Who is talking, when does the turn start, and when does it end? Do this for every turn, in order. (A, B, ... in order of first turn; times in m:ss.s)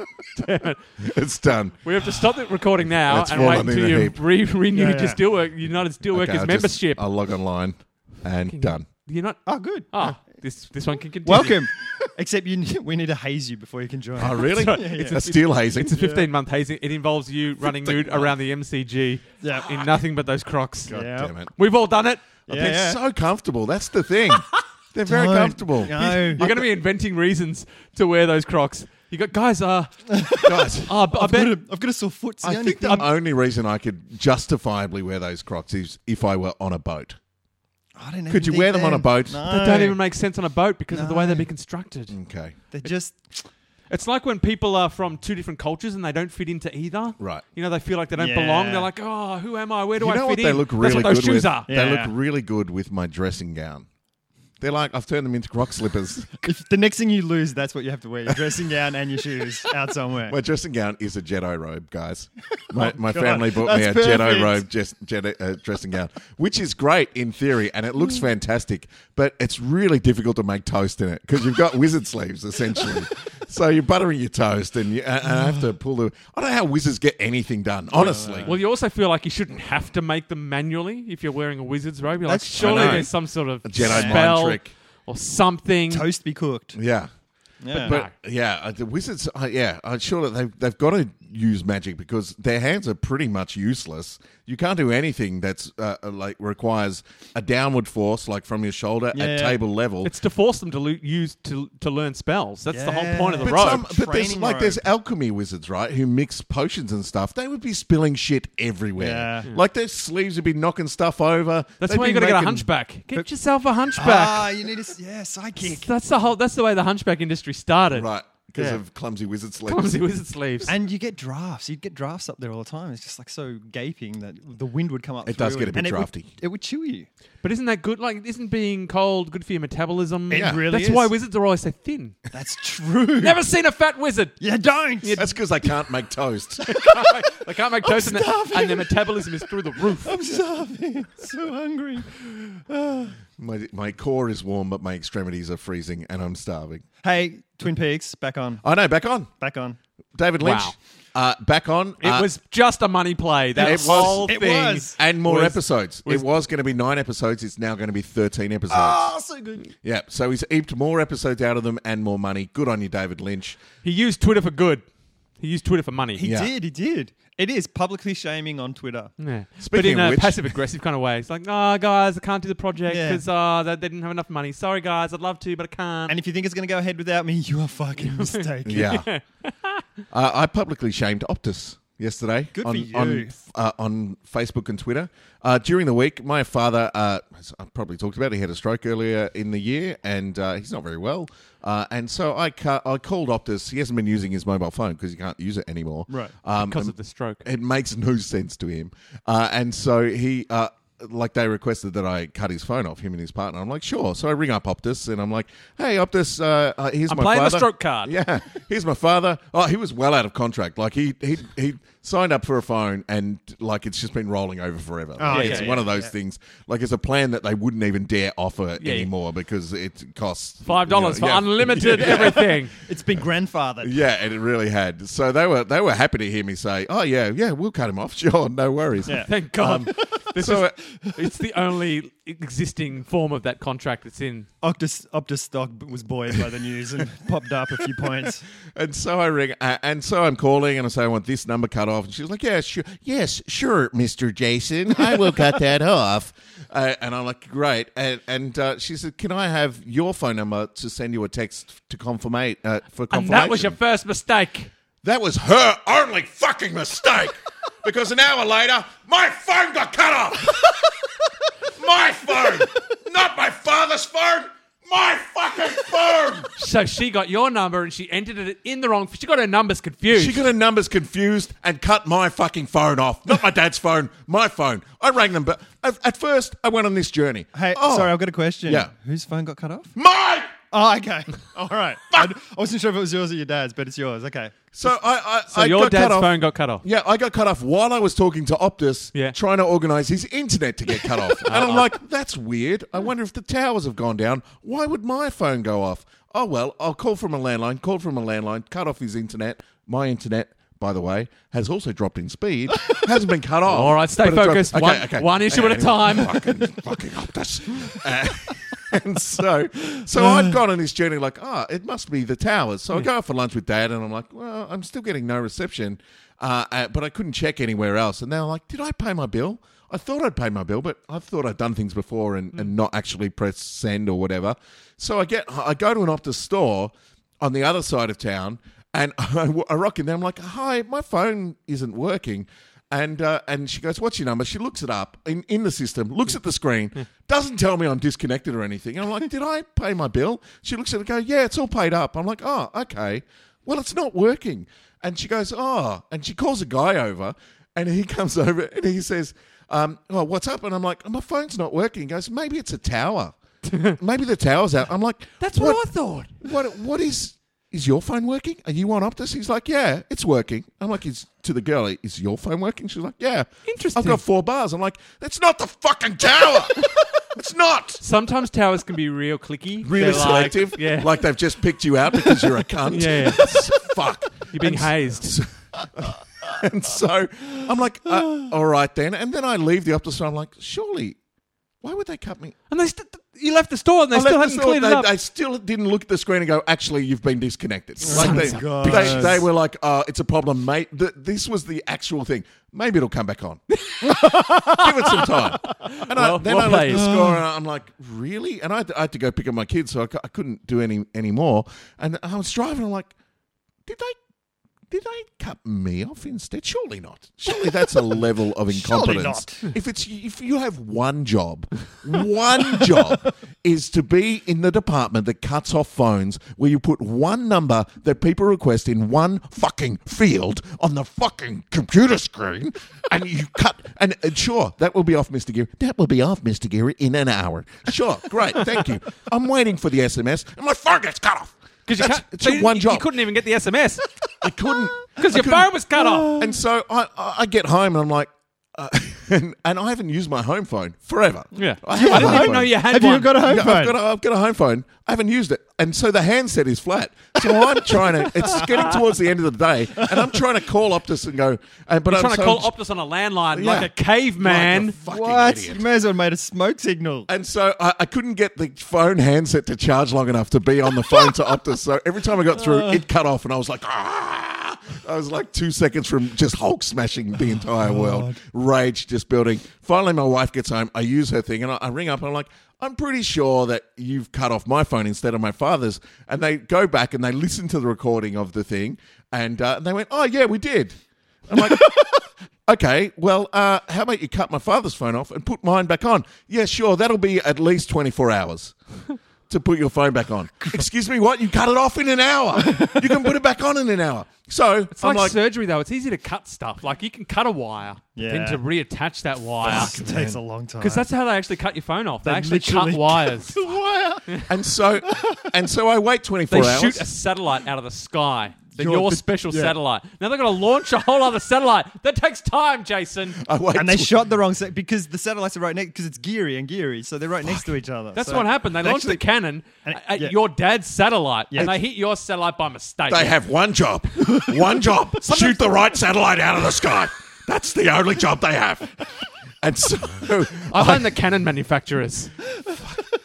0:00.3-0:01.0 A
0:01.0-0:01.8 B
0:01.8-0:07.0 A
0:03.1-0:04.2 B
0:04.7-0:05.2 C
0:06.1-0:08.8 B
0:08.5-0:11.6 A
0:09.4-0:09.9 C
0:11.2-0:15.2 C
0:14.2-0:16.1 B
0:14.2-0:22.3 A
0:15.9-0:16.3 C
0:17.6-0:18.3 B
0:19.4-0:20.0 C
0:20.9-0:21.3 C
0:20.9-0:21.5 B
0:22.5-0:26.7 B
0:22.5-0:23.0 C
0:25.1-0:26.4 C
0:26.0-0:31.5 A
0:30.1-0:33.1 C
0:30.4-0:30.9 B
0:32.4-0:37.2 B
0:38.0-0:40.0 C
0:38.3-0:39.4 B
0:39.4-0:42.1 A
0:40.9-0:41.5 C
0:42.1-0:42.6 B
0:42.7-0:43.2 C
0:43.9-0:51.7 A
0:48.1-0:48.9 C
0:50.0-0:53.9 B
0:51.7-0:52.1 C
0:54.6-0:56.4 B
0:56.4-1:00.4 C
1:00.3-1:18.5 B
1:02.7-1:04.6 C
1:17.9-1:18.6 C
1:18.4-1:26.1 A
1:22.2-1:23.1 C
1:22.6-1:24.7 B
1:23.8-1:24.2 C
1:25.9-1:26.8 C
1:26.7-1:27.1 B
1:27.6-1:28.0 C
1:27.7-1:28.1 A
1:27.8-1:40.1 B
1:39.1-1:39.6 C
1:40.0-1:43.8 A
1:42.7-1:44.8 C
1:43.4-1:52.6 B
1:49.0-1:49.5 C
1:51.8-1:54.5 A
1:53.9-1:55.8 C
1:55.6-1:58.8 A
1:57.9-1:59.9 B
1:59.6-2:00.7 A
2:00.6-2:07.1 C
2:05.2-2:06.3 B
2:07.4-2:12.2 A
2:10.3-2:11.1 C
2:10.3-2:10.6 B
2:12.3-2:13.4 C
2:13.2-2:15.4 A
2:14.4-2:15.2 C
2:15.2-2:16.9 B
2:16.7-2:20.2 A
2:16.8-2:17.1 C
2:17.8-2:23.1 C
2:23.4-2:26.8 B
2:27.0-2:28.6 C
2:28.6-2:29.3 B
2:29.4-2:29.8 C
2:30.1-2:32.3 B
2:30.4-2:30.7 A
2:32.0-2:36.3 A
2:33.6-2:35.0 C
2:33.6-2:34.4 B
2:35.0-2:39.1 B
2:38.7-2:39.6 C
2:39.8-2:43.6 B
2:43.8-2:44.8 A
2:45.4-2:46.2 A
2:46.1-2:49.1 C
2:46.2-2:46.5 B
2:49.2-2:56.2 A
2:49.6-2:50.4 B
2:52.9-2:53.2 C
2:56.1-2:59.0 C
2:58.0-2:59.8 A
2:58.6-2:59.1 B
3:00.1-3:16.9 B
3:02.5-3:03.4 C
3:16.1-3:16.3 C
3:16.6-3:17.4 A
3:17.4-3:42.5 B
3:27.1-3:28.1 A
3:35.2-3:36.1 C
3:35.3-3:35.8 A
3:38.8-3:39.1 A
3:40.6-3:42.7 A
3:42.0-3:43.9 C
3:43.8-3:50.8 B
3:49.0-3:50.1 C
3:49.1-3:54.5 A
3:51.0-3:51.3 C
3:54.6-3:58.4 C
3:58.7-4:13.8 B
4:13.1-4:14.7 A
4:15.0-4:20.7 B
4:21.7-4:26.5 B
4:26.6-4:30.4 A
4:30.1-4:38.9 B
4:37.5-4:39.9 C
4:40.0-4:40.5 B
4:40.7-4:44.6 C
4:44.7-5:55.8 B
4:45.5-4:46.8 A
4:51.4-4:51.9 A
5:03.6-5:06.6 A
5:10.2-5:10.6 C
5:53.7-5:53.9 A
5:55.4-5:56.4 A
5:56.4-6:08.0 B
6:03.6-6:04.2 A
6:08.0-6:11.2 A
6:09.8-6:21.2 B
6:12.9-6:13.7 A
6:14.5-6:15.4 A
6:21.8-6:22.6 B
6:22.7-6:25.1 A
6:24.1-6:33.6 B
6:28.0-6:29.4 C
6:28.1-6:29.4 A
6:33.7-6:37.1 A
6:34.1-6:34.8 C
6:34.6-6:43.1 B
6:36.7-6:37.4 C
6:43.8-6:44.2 B
6:44.9-7:13.1 B
6:48.7-6:49.7 C
6:52.7-6:53.1 C
7:11.8-7:14.1 A
7:14.4-7:15.7 B
7:15.2-7:16.4 A
7:15.9-7:16.6 C
7:16.4-7:22.7 B
7:21.5-7:23.4 A
7:21.9-7:24.0 C
7:23.4-7:32.7 B
7:28.0-7:28.9 C
7:30.0-7:30.3 C
7:32.1-7:35.0 A
7:33.5-7:33.9 B
7:34.4-7:35.8 B
7:35.0-7:37.3 C
7:37.3-8:01.0 B
7:42.5-7:43.0 C
7:47.8-7:48.4 C
8:01.5-8:08.8 B
8:09.5-8:15.4 B
8:12.6-8:13.0 C
8:15.0-8:19.9 A
8:18.2-8:18.6 C
8:19.6-8:21.0 C
8:19.7-8:20.4 B
8:20.8-8:23.6 A
8:22.2-8:24.3 C
8:24.4-8:27.0 B
8:25.1-8:25.4 C
8:26.5-8:33.4 A
8:28.8-8:29.7 C
8:33.4-8:34.2 B
8:33.7-8:39.2 C
8:38.1-8:43.4 A
8:39.8-8:40.4 C
8:41.5-8:41.8 C
8:43.1-8:49.0 B
8:45.2-8:45.9 A
8:49.6-8:51.1 B
8:50.7-8:52.3 A